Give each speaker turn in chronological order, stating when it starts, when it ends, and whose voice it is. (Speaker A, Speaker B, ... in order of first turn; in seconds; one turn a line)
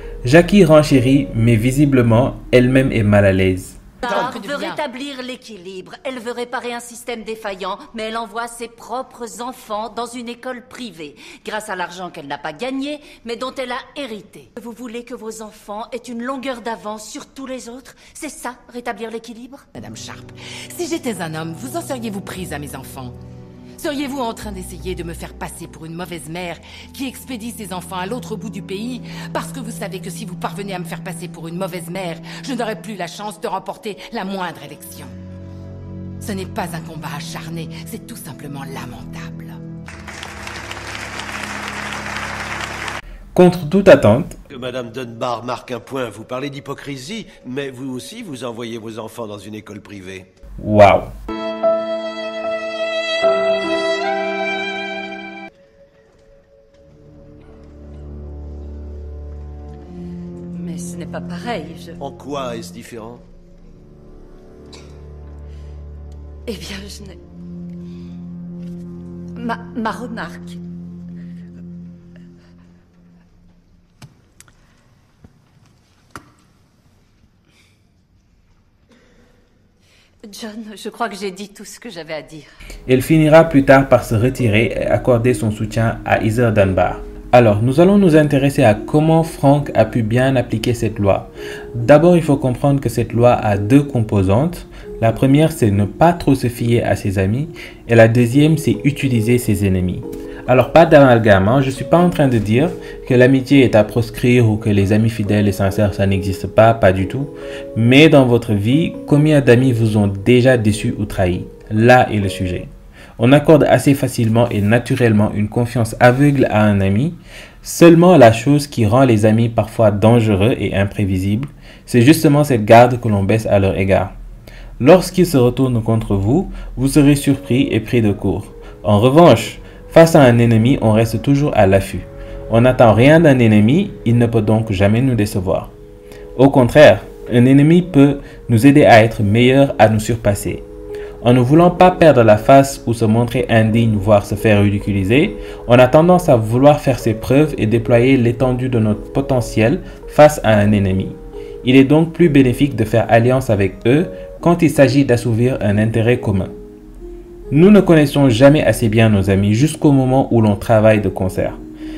Speaker A: 0.2-3.8
Speaker B: 4.0-4.8
Speaker C: 4.0-19.6
Speaker B: 19.8-23.2
Speaker B: 23.8-35.1
Speaker B: 36.2-39.6
Speaker A: 43.3-44.4
Speaker D: 44.5-50.3
Speaker A: 50.6-51.1
Speaker C: 60.5-62.0
Speaker D: 62.0-63.2
Speaker C: 66.5-67.2
Speaker C: 69.4-70.6
Speaker C: 80.3-82.5
Speaker A: 82.9-124.1
Speaker A: 124.8-135.7
Speaker A: 136.4-140.7
Speaker A: 141.2-156.5
Speaker A: 157.5-161.6